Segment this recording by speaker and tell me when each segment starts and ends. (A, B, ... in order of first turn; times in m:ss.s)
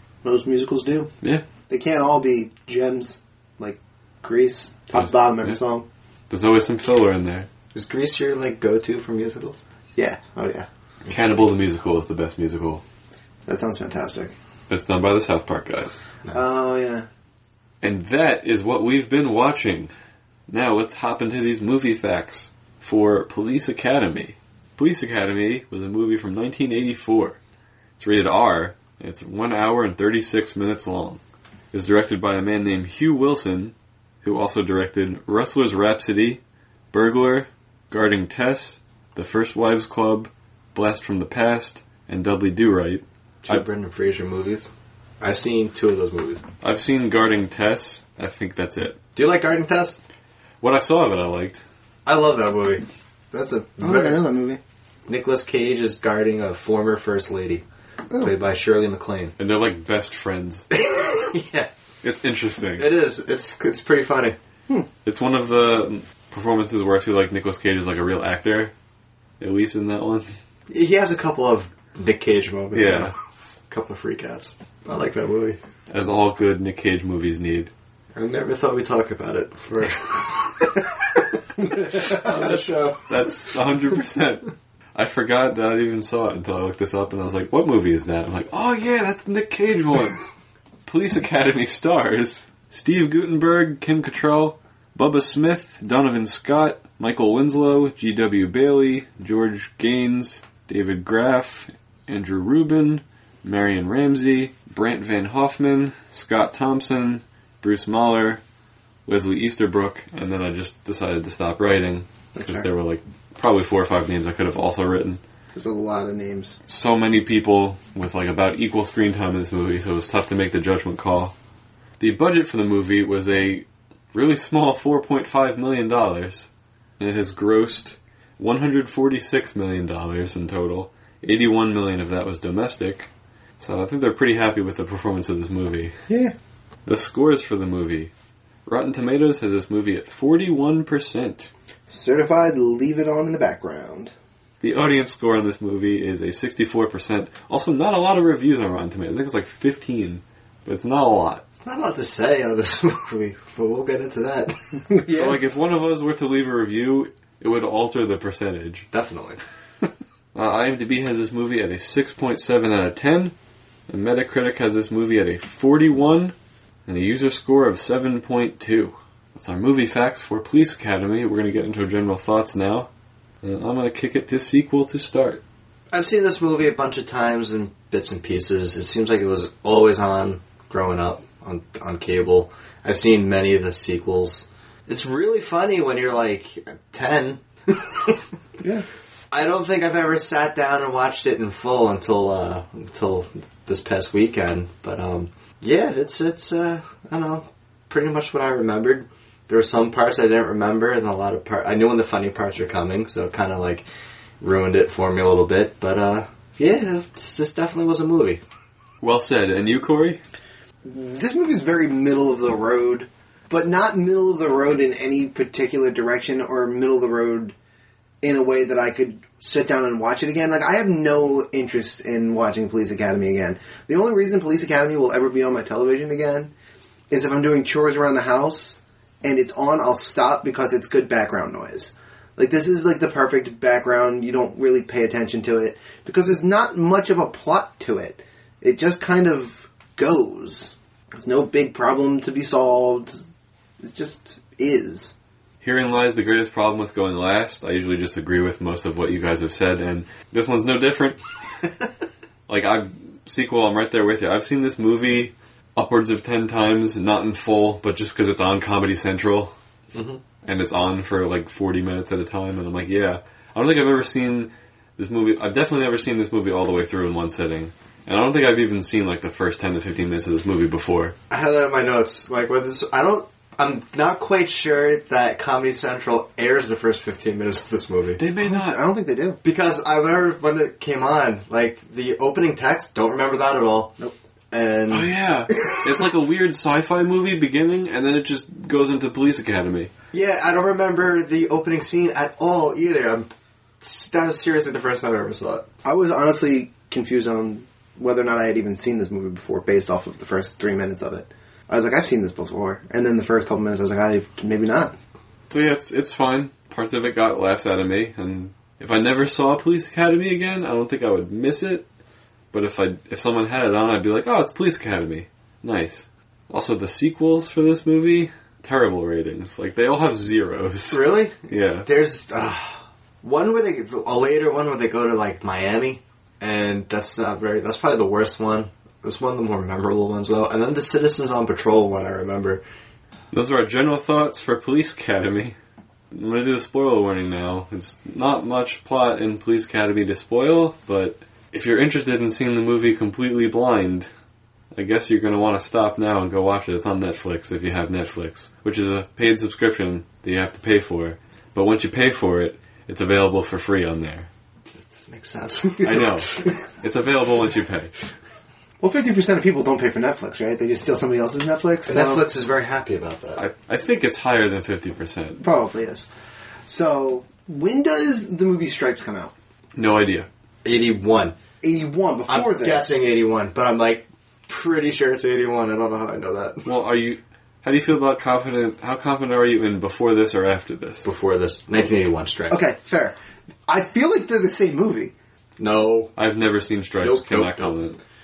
0:00.2-0:01.1 A
0:01.7-0:05.8 A
0:04.9-0:05.6 B
0:06.3-0:07.5 B
0:07.7-0:09.6 C
0:10.0-0:10.7 A
0:11.1-0:12.8 B
0:13.5-0:14.3 A
0:14.7-0:16.0 B
0:16.3-0:17.1 A
0:17.8-0:19.9 B
0:20.5-0:27.4 B
0:28.0-0:31.2 B
0:31.7-0:36.4 B
0:36.9-0:43.6 B
0:43.4-0:44.7 C
0:45.2-0:46.4 C
0:46.6-0:49.0 B
0:49.2-0:50.0 C
0:50.6-0:51.6 B
0:52.0-0:54.2 C
0:53.8-0:54.6 A
0:55.1-0:57.6 C
0:58.2-0:59.3 C
0:59.4-1:00.6 B
1:00.7-1:01.7 C
1:02.0-1:02.9 B
1:02.8-1:04.4 C
1:05.0-1:08.7 B
1:09.4-1:10.3 B
1:10.7-1:13.1 C
1:12.7-1:13.1 B
1:13.7-1:15.6 C
1:15.9-1:17.7 B
1:18.2-1:23.1 C
1:21.6-1:22.2 A
1:21.9-1:30.2 B
1:30.8-1:48.4 B
1:49.0-1:55.2 B
1:52.3-1:52.7 A
1:55.5-1:56.6 A
1:56.7-2:01.3 B
2:02.0-2:06.5 B
2:07.0-2:13.1 B
2:13.6-2:16.0 B
2:16.1-2:16.3 A
2:16.8-2:18.1 B
2:18.6-2:21.5 B
2:21.9-2:24.1 A
2:24.6-2:31.4 B
2:31.6-2:34.8 C
2:34.9-2:35.4 A
2:35.1-2:38.9 B
2:38.9-2:39.4 C
2:40.3-2:43.3 B
2:43.9-2:46.3 B
2:46.8-2:52.9 B
2:53.4-2:55.4 B
2:55.9-3:08.2 C
3:08.6-3:08.8 A
3:09.3-3:23.8 C
3:24.4-3:28.4 C
3:29.0-3:30.2 B
3:30.8-3:37.5 A
3:38.2-3:46.5 A
3:47.1-4:03.2 A
4:03.8-4:05.1 A
4:05.6-4:11.2 B
4:12.5-4:19.5 B
4:19.9-4:20.2 C
4:20.4-4:31.2 B
4:31.3-4:38.2 C
4:38.2-4:38.8 B
4:38.4-4:39.4 A
4:39.4-4:45.9 C
4:44.9-4:49.9 B
4:50.1-4:53.3 C
4:53.8-4:55.6 C
4:55.8-5:04.9 A
5:05.5-5:11.8 B
5:12.5-5:21.9 B
5:20.9-5:32.6 C
5:33.3-5:35.6 B
5:36.1-5:44.1 B
5:44.7-5:54.3 B
5:55.0-5:56.4 C
5:55.8-5:57.9 B
5:58.8-6:02.2 A
6:01.9-6:03.4 C
6:03.4-6:05.4 B
6:05.4-6:06.1 A
6:06.6-6:09.3 A
6:09.8-6:10.3 B
6:10.6-6:11.4 C
6:11.6-6:13.0 A
6:12.3-6:16.7 C
6:16.6-6:21.1 B
6:21.0-6:22.6 C
6:22.5-6:23.2 A
6:23.7-6:25.1 A
6:25.6-6:26.1 C
6:26.2-6:28.0 B
6:27.0-6:27.7 C